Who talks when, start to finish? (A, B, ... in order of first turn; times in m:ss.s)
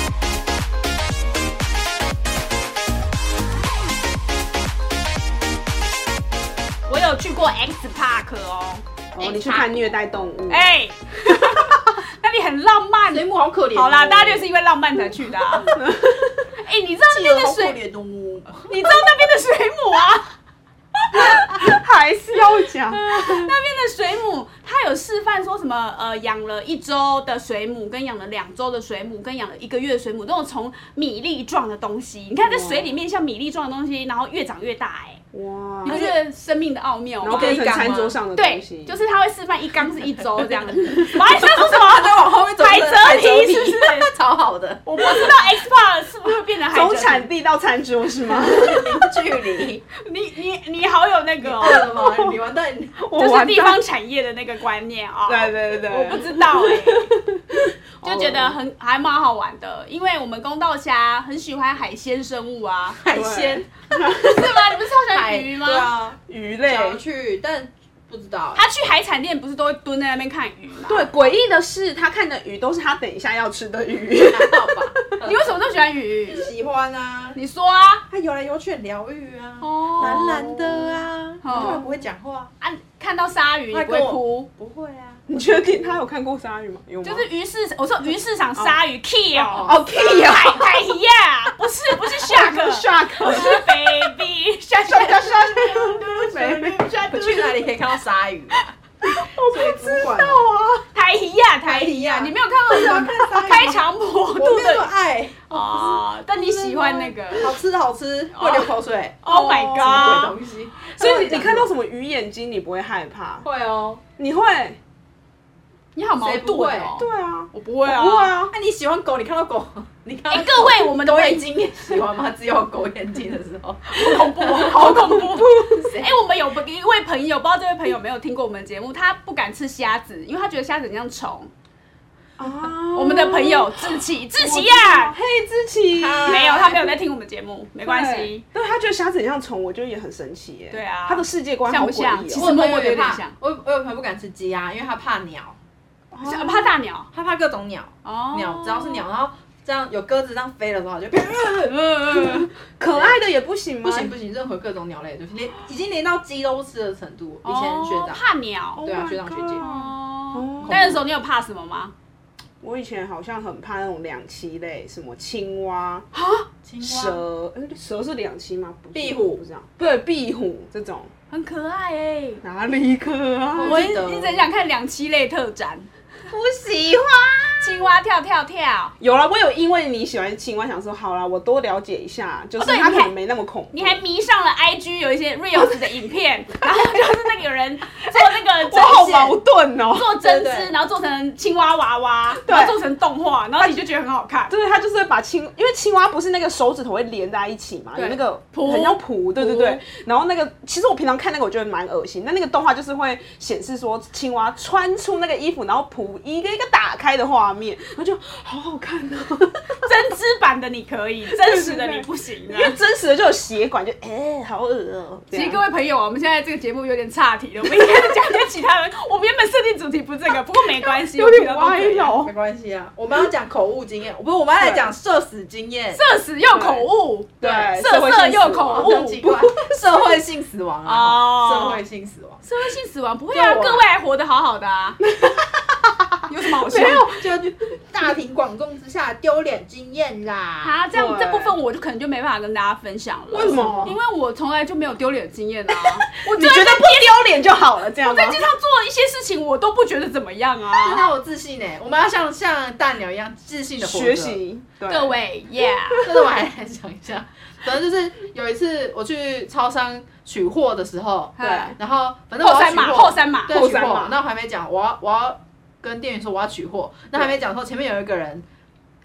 0:06.9-0:09.9 A
0:09.1-0:10.7 B
0:10.5-0:15.8 A
0:13.1-0:14.5 C
0:15.6-0:16.4 B
0:16.6-0:17.8 A
0:17.1-0:19.0 C
0:18.5-0:20.3 A
0:20.9-0:21.7 A
0:21.1-0:23.5 B
0:22.7-0:35.2 A
0:32.4-0:32.9 B
0:35.3-0:36.1 B
0:35.8-0:37.7 A
0:35.9-0:36.2 C
0:37.2-0:39.0 B
0:37.2-0:38.2 C
0:38.3-0:44.1 A
0:40.9-0:45.4 C
0:44.8-0:47.3 A
0:46.7-0:49.0 B
0:48.4-0:49.8 C
0:50.0-0:51.9 A
0:51.4-0:53.0 C
0:51.9-0:52.4 B
0:53.0-0:53.8 B
0:53.1-0:57.1 A
0:55.3-0:58.6 B
0:58.0-1:03.1 A
1:03.0-1:03.6 C
1:03.1-1:04.8 B
1:04.2-1:05.9 A
1:05.1-1:08.6 C
1:06.3-1:07.0 B
1:08.5-1:11.1 A
1:10.8-1:15.1 B
1:14.2-1:15.6 C
1:15.2-1:16.5 A
1:16.4-1:17.4 C
1:17.3-1:18.0 A
1:18.1-1:22.5 C
1:19.6-1:20.4 A
1:20.0-1:21.8 B
1:21.4-1:21.9 A
1:22.6-1:24.5 A
1:23.7-1:25.2 C
1:25.3-1:27.3 B
1:27.0-1:35.2 A
1:28.5-1:28.8 B
1:29.3-1:30.2 C
1:29.6-1:30.7 B
1:32.0-1:34.1 B
1:34.9-1:37.6 B
1:34.9-1:38.8 C
1:39.0-1:40.8 B
1:39.5-1:40.4 C
1:40.9-1:44.9 A
1:41.6-1:50.8 C
1:45.5-1:47.5 A
1:48.3-1:51.7 A
1:49.3-1:50.0 B
1:50.8-1:53.4 B
1:53.4-1:54.0 C
1:54.2-1:54.8 B
1:55.9-1:58.5 A
1:56.2-1:56.9 C
1:56.9-1:57.5 B
1:57.8-2:06.2 C
2:00.3-2:01.4 A
2:03.9-2:11.5 A
2:12.4-2:17.0 B
2:12.8-2:15.2 A
2:15.9-2:16.8 C
2:16.2-2:18.4 A
2:17.8-2:22.5 B
2:20.7-2:23.3 A
2:22.4-2:25.6 C
2:26.1-2:26.8 B
2:26.2-2:27.1 A
2:27.1-2:33.2 C
2:28.0-2:29.1 A
2:31.6-2:32.5 A
2:32.3-2:34.1 B
2:33.8-2:38.2 C
2:37.4-2:38.9 A
2:38.8-2:41.0 B
2:38.8-2:39.6 C
2:39.6-2:41.9 A
2:40.6-2:41.0 C
2:42.6-2:46.0 B
2:46.1-2:46.5 A
2:46.6-2:47.2 C
2:46.8-2:51.1 B
2:48.9-2:49.4 C
2:51.3-2:52.4 A
2:52.4-2:53.8 B
2:53.5-2:54.5 C
2:53.6-2:55.9 A
2:56.3-2:57.9 B
2:57.6-2:58.9 A
2:59.0-3:04.0 B
3:02.6-3:03.1 A
3:03.7-3:09.3 A
3:05.6-3:06.0 B
3:06.6-3:07.1 B
3:08.1-3:10.2 B
3:09.0-3:09.3 C
3:09.9-3:14.5 A
3:10.3-3:10.7 C
3:12.3-3:12.8 B
3:14.5-3:29.7 B
3:17.9-3:19.8 A
3:29.8-3:32.8 A
3:31.3-3:35.6 B
3:35.3-3:42.2 A
3:37.7-3:38.0 B
3:40.8-3:42.3 B
3:42.1-3:46.0 C
3:44.6-3:44.9 B
3:45.9-3:49.2 A
3:46.5-3:46.9 B
3:47.4-3:47.8 C
3:47.4-3:49.8 B
3:48.7-3:52.5 C
3:50.8-3:51.8 A
3:52.4-3:55.0 A
3:53.3-3:53.8 C
3:55.2-3:55.7 B
3:56.3-3:57.2 A
3:56.6-3:57.1 B
3:57.0-4:00.8 C
4:00.6-4:07.3 A
4:00.9-4:01.6 B
4:03.3-4:04.0 B
4:05.8-4:08.4 B
4:08.0-4:11.0 A
4:10.8-4:14.4 C
4:13.8-4:15.2 B
4:14.9-4:16.0 A
4:16.0-4:28.4 C
4:21.4-4:21.8 A
4:21.4-4:21.7 B
4:22.4-4:23.6 A
4:23.5-4:24.2 B